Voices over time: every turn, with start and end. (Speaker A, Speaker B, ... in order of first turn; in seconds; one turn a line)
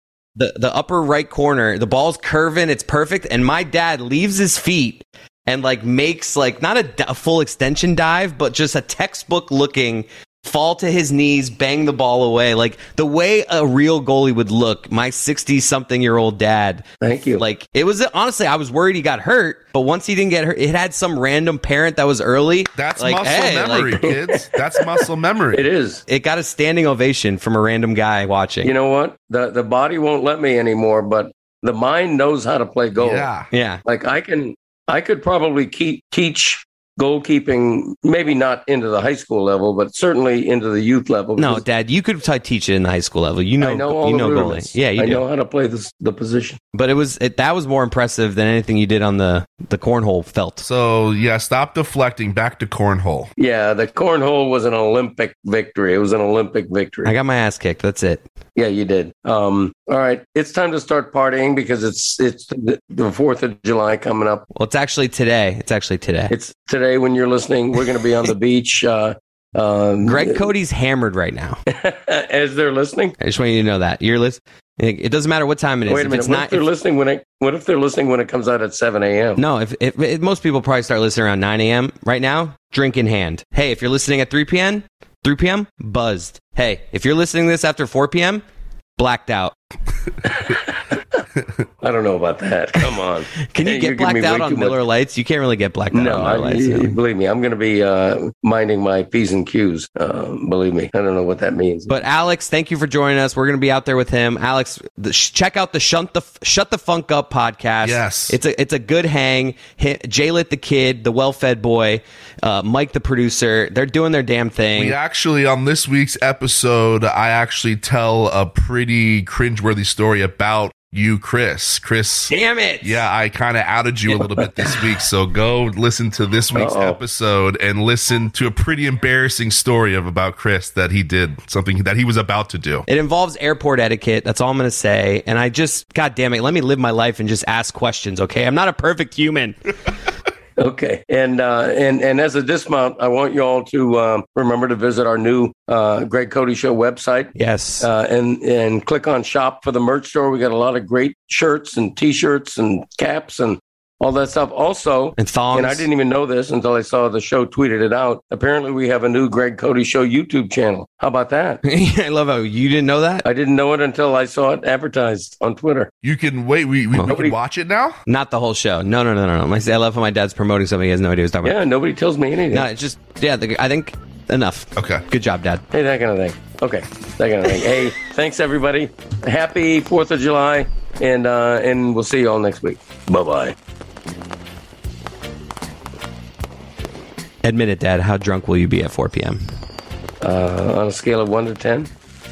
Speaker A: 0.3-16.8
Speaker B: 17.0-17.4
Speaker A: 17.4-24.1
Speaker C: 22.8-25.6
Speaker B: 24.0-24.4
Speaker B: 25.5-26.0
Speaker A: 26.1-28.7
Speaker B: 28.6-33.3
Speaker C: 33.0-33.5
Speaker A: 33.5-33.8
Speaker B: 33.8-41.6
Speaker A: 41.4-45.2
Speaker B: 43.6-46.6
Speaker A: 46.7-50.6
Speaker C: 50.6-53.3
Speaker B: 53.4-57.1
Speaker A: 57.0-58.2
Speaker B: 58.5-64.4
Speaker A: 64.5-66.3
Speaker B: 66.3-70.4
Speaker A: 70.0-71.6
Speaker B: 71.7-73.2
Speaker A: 73.2-76.7
Speaker B: 75.9-79.4
Speaker A: 79.4-88.4
Speaker A: 89.0-89.5
Speaker B: 90.2-91.2
Speaker B: 91.8-94.8
Speaker A: 93.5-97.0
Speaker B: 95.9-101.9
Speaker A: 101.9-115.0
Speaker C: 107.8-108.4
Speaker C: 114.8-132.8
Speaker A: 122.3-123.0
Speaker B: 126.5-127.0
Speaker A: 132.9-139.6
Speaker B: 140.6-161.6
Speaker A: 147.3-147.9
Speaker A: 155.2-155.8
Speaker A: 161.6-163.2
Speaker B: 163.2-165.9
Speaker C: 166.0-168.0
Speaker B: 167.0-167.3
Speaker A: 168.1-171.6
Speaker B: 171.4-172.7
Speaker A: 172.5-175.6
Speaker C: 174.8-175.0
Speaker B: 175.7-183.5
Speaker A: 187.4-189.4
Speaker B: 190.2-191.9